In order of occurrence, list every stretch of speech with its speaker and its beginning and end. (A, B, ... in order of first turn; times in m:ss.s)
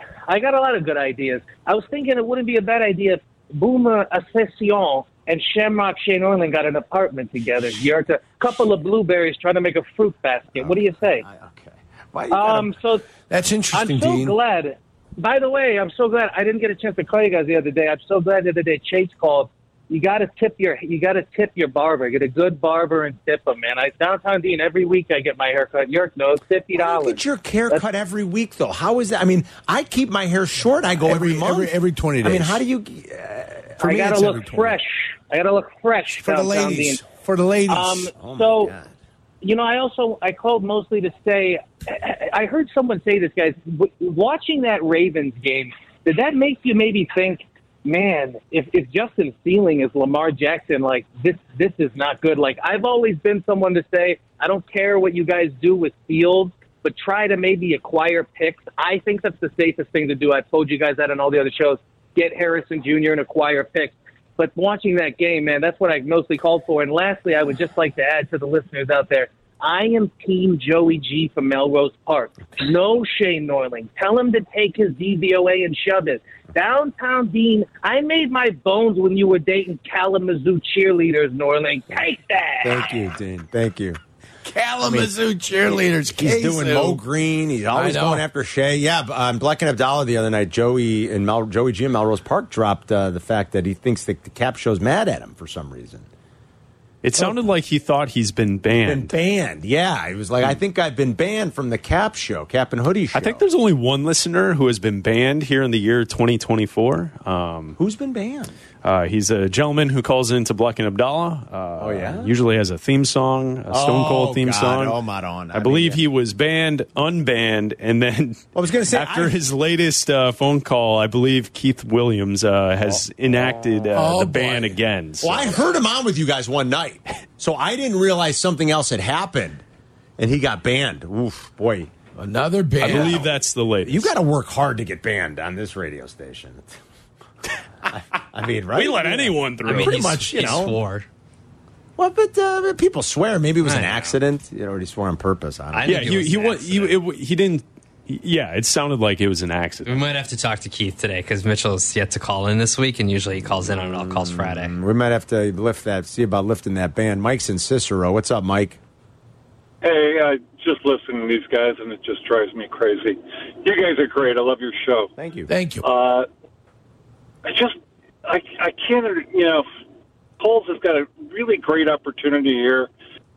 0:00.3-0:11.2 A
0:10.6-0:12.7 B
0:12.3-0:13.0 A
0:13.3-0:14.4 C
0:13.7-0:27.8 A
0:26.8-0:33.8 B
0:31.0-0:32.6 C
0:33.8-0:34.8 C
0:33.8-0:37.0 A
0:36.1-0:38.1 C
0:37.7-0:38.8 A
0:38.1-0:38.9 B
0:39.4-1:23.0 A
1:22.6-1:24.0 B
1:24.4-1:27.0 C
1:24.8-1:25.1 B
1:25.7-1:36.1 B
1:27.7-1:28.2 C
1:37.0-1:39.1 D
1:38.8-1:43.4 B
1:43.1-1:47.8 D
1:47.8-1:48.5 B
1:48.8-1:55.0 D
1:51.8-1:52.3 B
1:53.7-1:56.0 B
1:55.5-2:05.6 D
1:58.6-1:59.4 B
2:04.0-2:04.8 C
2:05.2-2:09.6 B
2:10.2-2:11.9 B
2:12.2-2:13.2 C
2:12.8-2:14.1 D
2:12.8-2:13.3 B
2:13.8-2:16.8 B
2:17.8-2:20.8 B
2:18.7-2:20.3 D
2:19.6-2:21.1 E
2:22.0-2:26.9 B
2:23.6-2:24.0 E
2:25.7-2:26.9 E
2:25.8-2:30.0 D
2:29.9-2:34.7 E
2:33.8-2:38.8 B
2:39.8-2:45.1 F
2:45.2-2:45.5 B
2:45.5-2:45.9 C
2:45.8-2:46.3 F
2:47.4-2:49.7 F
2:50.4-2:52.9 F